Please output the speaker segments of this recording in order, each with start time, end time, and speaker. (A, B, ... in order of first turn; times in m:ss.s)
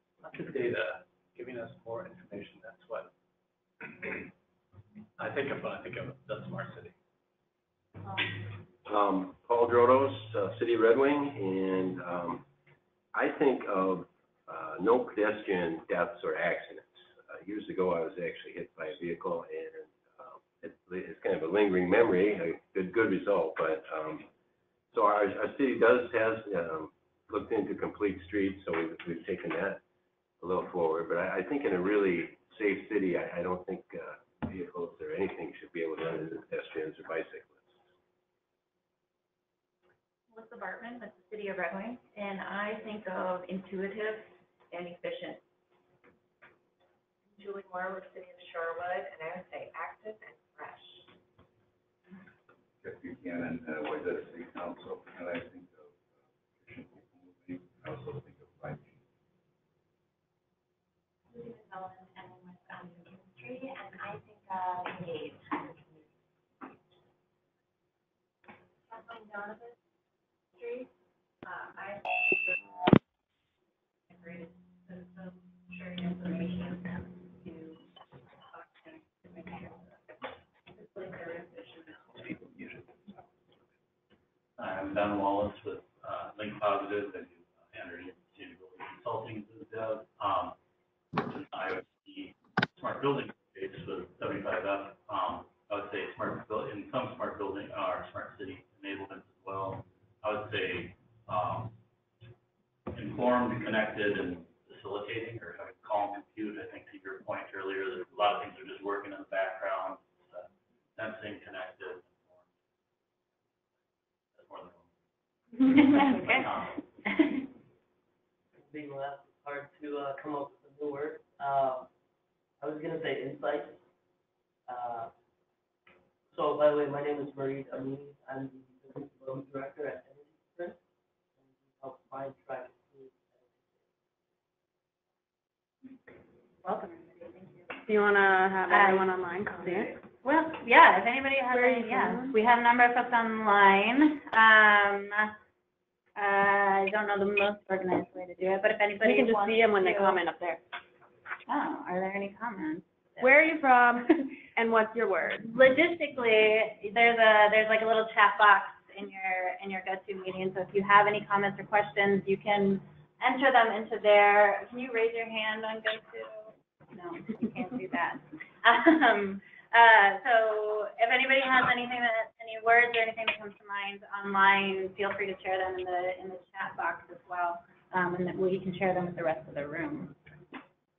0:00.2-0:03.1 A
0:05.2-0:06.9 A
0:08.8-0:12.4 B
0:13.1-0:24.3 B
0:24.9-0:29.8 B
0:30.4-0:37.8 B
0:44.7-0:45.3 C
0:47.3-0:51.1 C
0:52.8-0:59.0 D
1:01.4-1:06.0 C
1:08.9-1:09.7 C
1:10.6-1:10.8 C
1:11.5-1:12.0 C
1:14.1-1:16.8 C
1:17.4-1:17.8 C
1:18.8-1:19.6 C
1:20.8-1:22.3 C
1:24.6-1:30.6 E
1:31.2-1:41.8 E
1:42.9-1:52.5 E
1:54.3-1:54.9 E
1:55.6-1:56.4 F
1:55.7-1:56.7 E
1:57.1-1:57.4 F
1:58.6-2:01.9 G
2:02.6-2:03.8 G
2:04.7-2:05.1 G
2:06.3-2:10.8 G
2:11.4-2:13.8 G
2:16.6-2:17.7 F
2:17.9-2:19.9 H
2:18.7-2:25.3 F
2:21.5-2:22.4 H
2:26.2-2:30.2 F
2:29.0-2:30.6 H
2:31.5-2:33.4 F
2:33.2-2:35.5 H
2:35.4-3:00.1 F